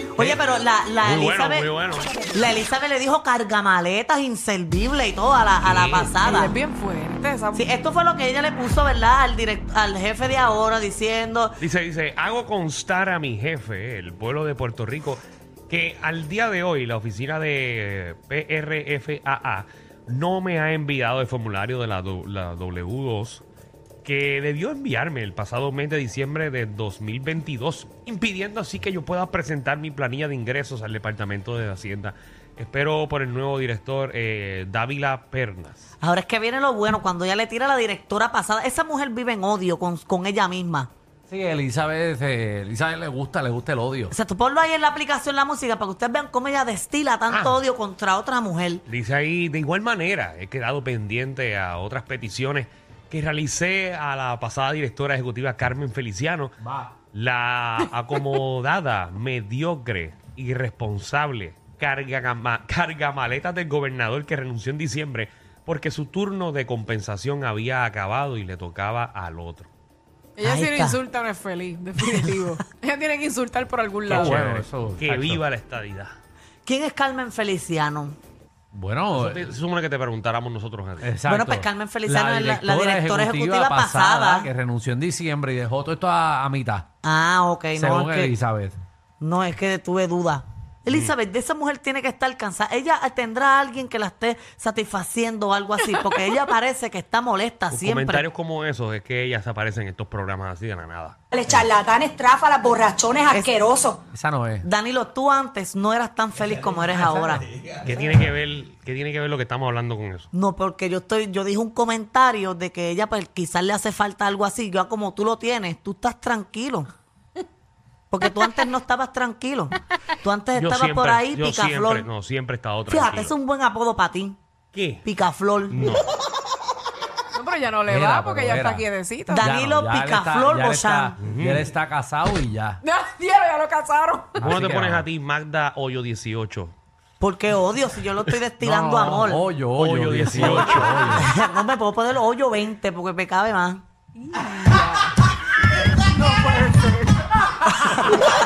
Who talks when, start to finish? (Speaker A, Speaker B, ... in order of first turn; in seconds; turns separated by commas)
Speaker A: 0.1-1.7, Speaker B: 1.0-2.2, Speaker A: 2.2-6.5, Speaker B: 5.6-6.2, Speaker C: 6.2-7.7, Speaker A: 7.5-11.6, Speaker B: 11.6-23.4, Speaker B: 24.0-35.8, Speaker A: 36.0-40.9, Speaker D: 41.3-44.1, Speaker A: 44.1-48.8, Speaker B: 47.3-47.6, Speaker B: 48.9-56.5, Speaker D: 56.6-56.9, Speaker B: 57.1-69.7, Speaker C: 70.4-74.4, Speaker A: 70.4-71.0, Speaker D: 74.1-75.4, Speaker B: 74.1-76.1, Speaker A: 76.7-78.2, Speaker D: 78.7-79.5, Speaker B: 79.1-81.1, Speaker D: 81.0-86.9, Speaker A: 81.3-84.5, Speaker A: 87.0-88.3, Speaker D: 87.7-88.7, Speaker A: 89.2-98.2, Speaker B: 90.9-91.1, Speaker B: 97.7-101.2, Speaker E: 101.3-104.0, Speaker A: 103.3-103.6, Speaker D: 104.1-104.7, Speaker A: 104.6-107.4, Speaker B: 107.8-110.3, Speaker A: 110.3-116.9, Speaker A: 118.1-122.0, Speaker B: 120.5-123.3, Speaker A: 122.9-124.4, Speaker B: 124.7-125.0, Speaker A: 125.0-126.0, Speaker B: 125.7-126.0, Speaker C: 127.3-129.5, Speaker D: 127.9-132.8, Speaker A: 129.3-131.2, Speaker B: 131.2-131.6, Speaker C: 132.8-134.5, Speaker D: 134.4-135.1, Speaker B: 134.4-136.7, Speaker A: 137.2-139.5, Speaker D: 138.6-141.3, Speaker B: 139.7-141.3, Speaker A: 141.1-143.8, Speaker C: 144.2-145.2, Speaker C: 146.1-147.7